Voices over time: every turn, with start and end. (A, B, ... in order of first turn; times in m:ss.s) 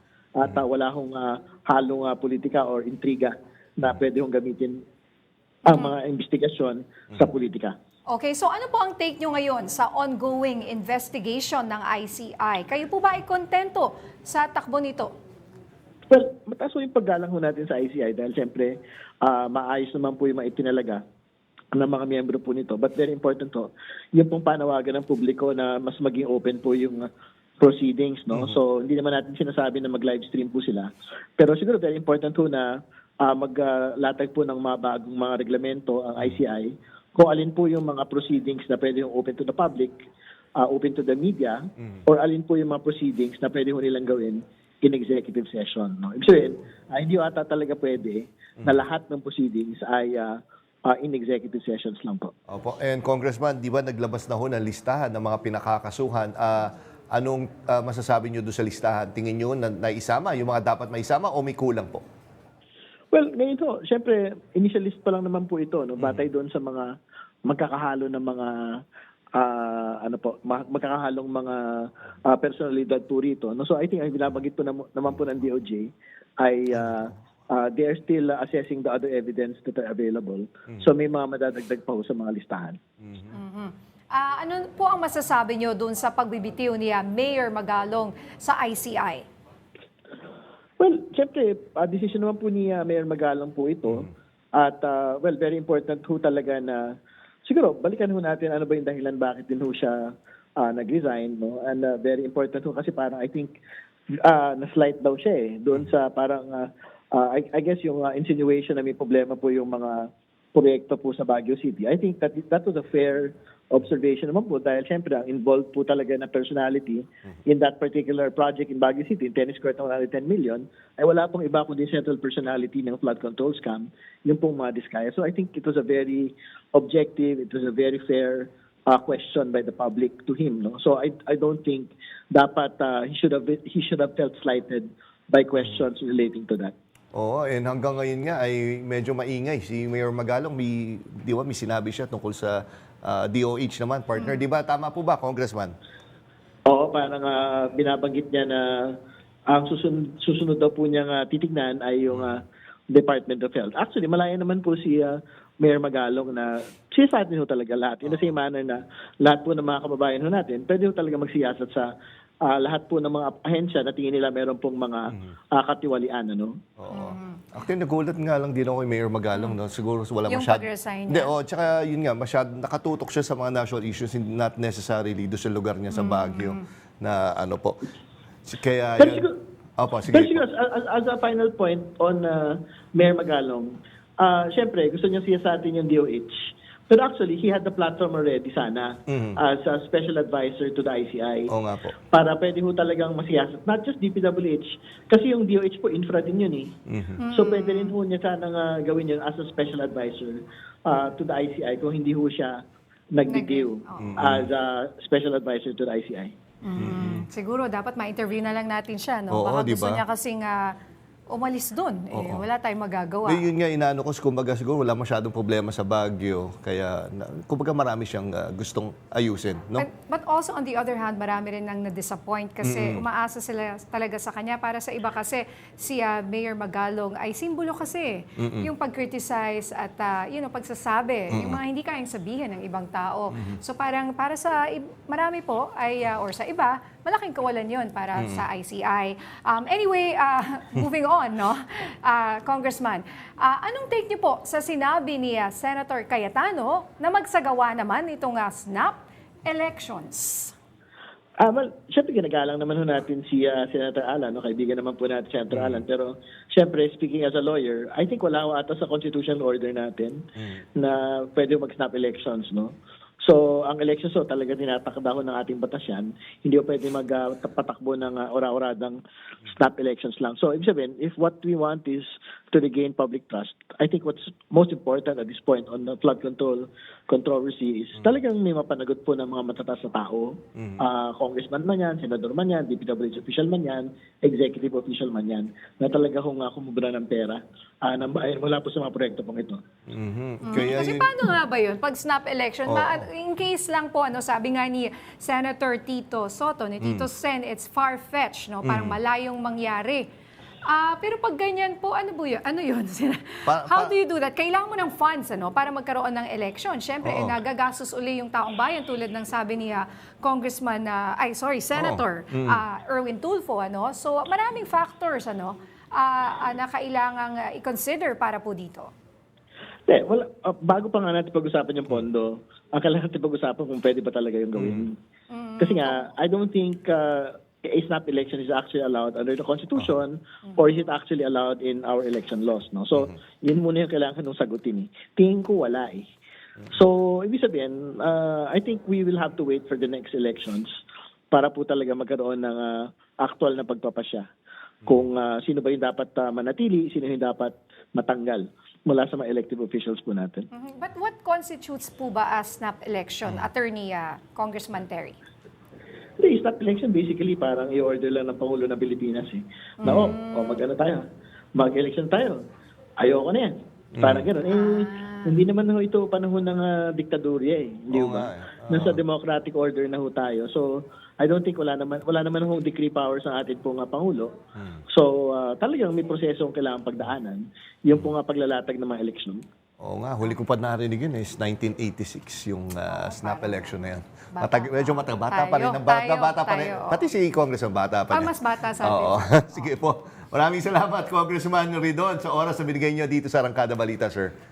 0:00.4-0:04.8 A
0:05.7-0:07.8 A
0:08.1-0:15.1 B
0:16.1-0:21.0 A
0:21.7-0:27.0 A
0:27.6-0:32.7 A
0:33.2-0:40.0 A
0:40.6-0:52.3 A
0:52.5-1:02.0 C
1:03.1-1:06.9 A
1:07.5-1:08.8 A
1:09.4-1:22.8 A
1:16.7-1:17.1 C
1:23.0-1:23.3 C
1:23.3-1:29.3 B
1:30.8-1:36.8 A
1:37.5-1:40.0 A
1:40.6-1:43.6 A
1:44.2-2:16.7 A
2:17.1-2:25.7 C
2:24.2-2:24.4 B
2:26.7-2:29.0 A
2:29.5-2:41.9 A
2:32.1-2:32.4 C
2:38.0-2:38.3 C
2:42.4-2:46.6 A
2:46.8-2:57.8 C
2:46.9-2:47.4 B
2:50.3-2:51.3 B
2:55.9-2:56.6 B
2:58.5-3:00.4 C
2:59.0-2:59.3 A
3:00.1-3:06.3 A
3:06.9-3:11.5 A
3:09.1-3:09.4 C
3:11.5-3:12.0 C
3:12.1-3:16.7 A
3:16.9-3:17.2 C
3:17.2-3:18.0 B
3:17.3-3:22.6 A
3:23.1-3:26.3 A
3:23.3-3:24.2 B
3:24.0-3:24.5 C
3:26.6-3:30.7 B
3:26.8-3:27.2 C
3:29.3-3:30.0 C
3:31.3-3:33.5 B
3:32.1-3:32.4 C
3:33.3-3:39.9 C
3:39.8-4:10.5 B
3:42.6-3:43.0 C
3:48.4-3:48.7 C
3:51.3-3:51.6 C
3:58.2-3:58.4 C
4:11.4-4:20.2 A
4:15.5-4:15.8 C
4:20.4-4:20.6 C
4:20.8-4:22.7 A
4:23.2-4:49.6 A
4:40.6-4:40.8 C
4:49.9-4:51.1 C
4:50.4-5:00.1 B
4:52.7-4:53.1 C
4:56.8-4:57.1 C
4:58.6-4:59.0 C
5:00.7-5:18.9 B
5:03.5-5:03.9 C
5:07.0-5:07.4 C
5:11.8-5:12.6 C
5:19.9-5:25.0 A
5:24.6-5:24.8 C
5:25.3-5:26.1 B
5:25.6-5:36.1 A
5:36.7-5:40.7 A
5:41.3-5:44.2 A
5:44.8-5:50.5 A
5:50.5-5:55.2 B
5:56.2-6:01.0 A
5:59.8-6:00.6 B
5:59.8-6:00.1 C
6:01.6-6:02.4 A
6:03.0-6:14.3 A
6:04.0-6:04.3 C
6:04.5-6:05.4 B
6:07.9-6:09.0 C
6:14.9-6:19.4 A
6:19.8-6:34.3 C
6:22.9-6:23.8 B
6:24.3-6:27.0 B
6:28.1-6:29.2 B